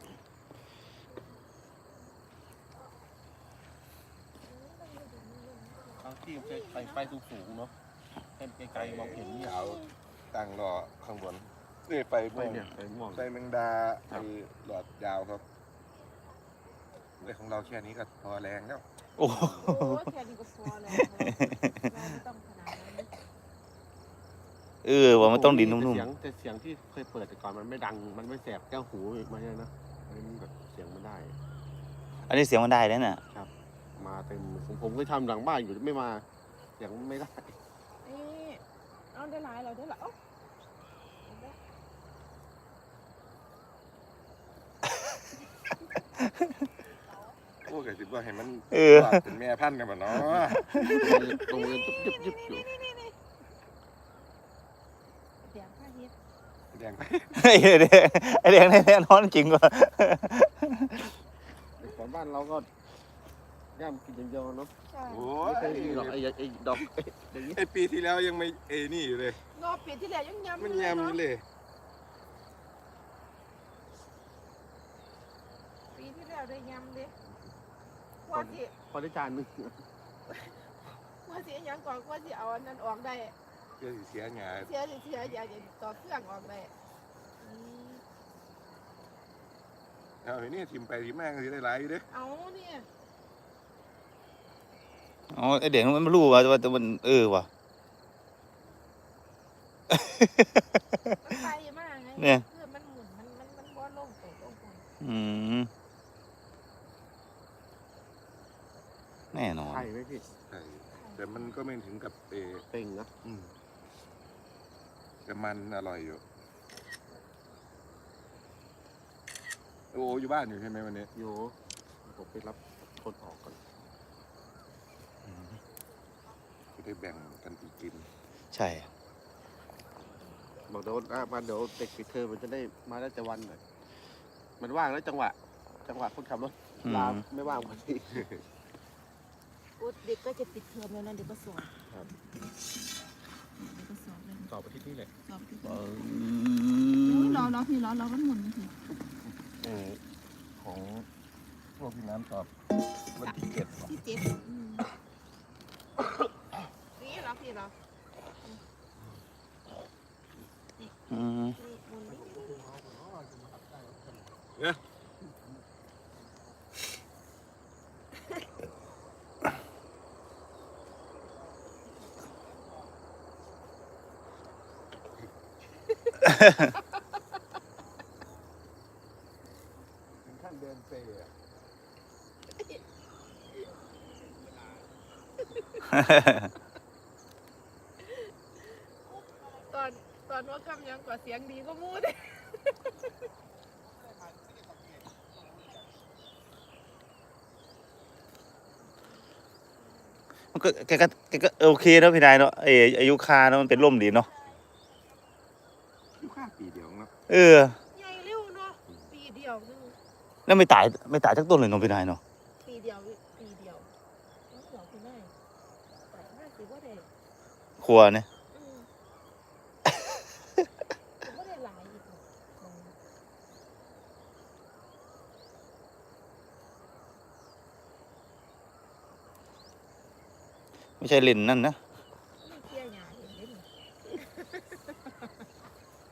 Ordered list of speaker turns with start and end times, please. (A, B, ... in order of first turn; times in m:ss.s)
0:04.4-0:07.2 A
0:06.0-0:07.8 B
0:08.4-0:09.6 B
0:08.7-0:15.4 C
0:09.1-0:09.9 A
0:12.4-0:13.3 B
0:17.2-0:18.8 C
0:19.2-0:20.0 D
0:19.5-0:23.1 A
0:24.8-0:26.1 D
0:25.1-0:31.4 B
0:32.3-0:33.2 D
0:33.3-0:36.2 B
0:36.8-0:37.6 B
0:38.0-0:40.2 A
0:41.2-0:41.6 A
0:47.7-0:50.6 C
0:48.7-0:49.2 D
0:50.7-0:53.2 A
0:50.8-0:51.1 D
0:50.8-0:52.7 B
0:55.4-0:56.1 A
0:56.7-0:57.3 C
0:57.4-1:01.0 D
1:01.8-1:02.7 B
1:03.8-1:04.7 B
1:04.9-1:05.3 A
1:05.1-1:06.2 C
1:05.4-1:07.6 B
1:07.5-1:09.4 C
1:09.5-1:11.2 A
1:10.6-1:11.4 C
1:15.9-1:17.1 A
1:18.2-1:18.7 A
1:18.3-1:19.8 B
1:21.2-1:23.4 A
1:23.8-1:24.7 C
1:24.5-1:26.7 A
1:27.4-1:28.0 A
1:30.2-1:32.0 C
1:32.1-1:32.9 A
1:35.3-1:37.5 D
1:39.9-1:40.5 D
1:41.2-1:44.9 A
1:42.2-1:42.4 D
1:45.0-1:45.7 D
1:49.3-1:49.9 D
1:49.7-1:50.3 B
1:50.5-1:52.6 C
1:50.9-1:51.5 A
1:52.7-1:53.1 B
1:53.2-1:53.5 C
1:55.3-1:56.2 C
1:59.9-2:01.1 C
2:01.2-2:03.7 B
2:05.3-2:05.6 D
2:06.8-2:08.1 C
2:08.5-2:08.9 D
2:10.7-2:13.6 B
2:14.6-2:18.5 B
2:16.8-2:17.2 D
2:17.4-2:17.8 A
2:19.8-2:21.7 A
2:23.6-2:24.5 A
2:24.5-2:25.1 B
2:25.2-2:25.8 A
2:25.6-2:27.5 D
2:27.0-2:28.8 A
2:29.6-2:30.0 B
2:30.6-2:31.1 C
2:31.8-2:32.5 C
2:33.1-2:33.8 C
2:33.2-2:34.9 A
2:37.0-2:37.7 A
2:40.8-2:42.7 A
2:41.1-2:41.6 D
2:42.1-2:44.1 B
3:00.1-3:01.3 C
3:05.6-3:05.9 A
3:06.1-3:06.4 D
3:09.7-3:12.4 A
3:20.5-3:24.3 D
3:26.2-3:27.1 C
3:27.3-3:27.8 D
3:27.9-3:30.0 A
3:30.5-3:32.2 D
3:32.6-3:33.9 A
3:34.5-3:35.3 A
3:36.1-3:37.1 A
3:37.8-3:38.3 D
3:38.5-3:38.9 A
3:41.2-3:43.0 A
3:51.0-3:51.8 D
3:52.4-3:53.7 A
3:54.3-3:54.7 A